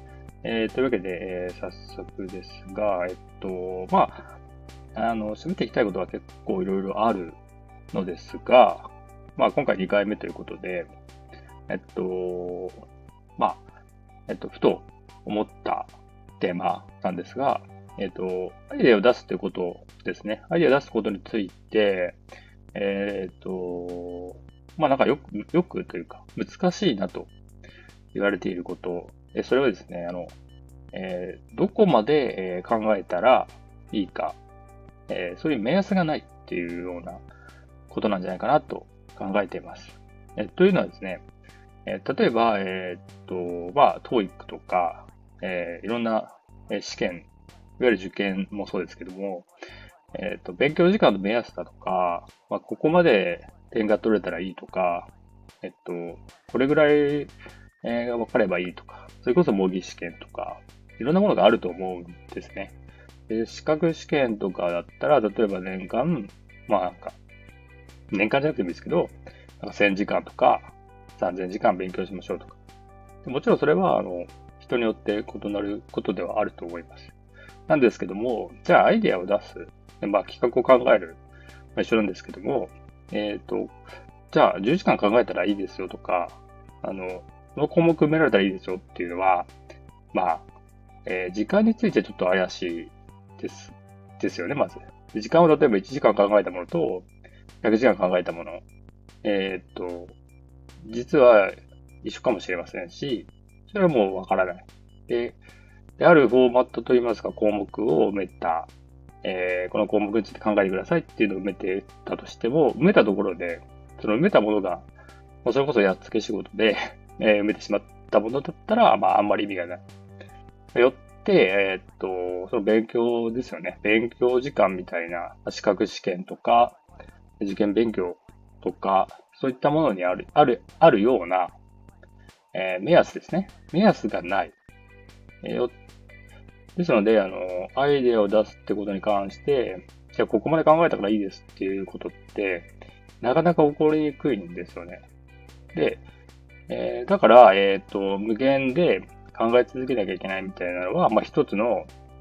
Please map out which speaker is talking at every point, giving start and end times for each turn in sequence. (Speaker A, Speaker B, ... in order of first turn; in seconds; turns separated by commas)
Speaker A: 0.4-4.3, Speaker A: 4.9-7.4, Speaker A: 7.9-10.9, Speaker A: 11.7-12.8, Speaker A: 13.4-13.6, Speaker A: 14.3-22.2, Speaker A: 22.7-27.3, Speaker A: 28.1-30.3, Speaker A: 30.9-34.4, Speaker A: 35.1-37.2, Speaker A: 37.9-41.2, Speaker A: 41.9-47.3, Speaker A: 47.8-49.5, Speaker A: 50.1-55.1, Speaker A: 55.6-57.3, Speaker A: 57.8-62.7, Speaker A: 63.3-67.2, Speaker A: 68.1-72.6, Speaker A: 73.2-77.1, Speaker A: 77.7-81.2, Speaker A: 81.7-83.8, Speaker A: 84.3-89.5, Speaker A: 90.1-90.4, Speaker A: 91.0-97.1, Speaker A: 97.6-98.6, Speaker A: 99.2-100.1, Speaker A: 100.8-105.4, Speaker A: 106.0-108.7, Speaker A: 109.2-114.8, Speaker A: 115.4-119.8, Speaker A: 120.7-126.8, Speaker A: 127.4-131.5, Speaker A: 132.5-134.5, Speaker A: 135.4-135.7, Speaker A: 136.8-142.7, Speaker A: 143.2-145.0, Speaker A: 145.7-146.0, Speaker A: 146.7-151.9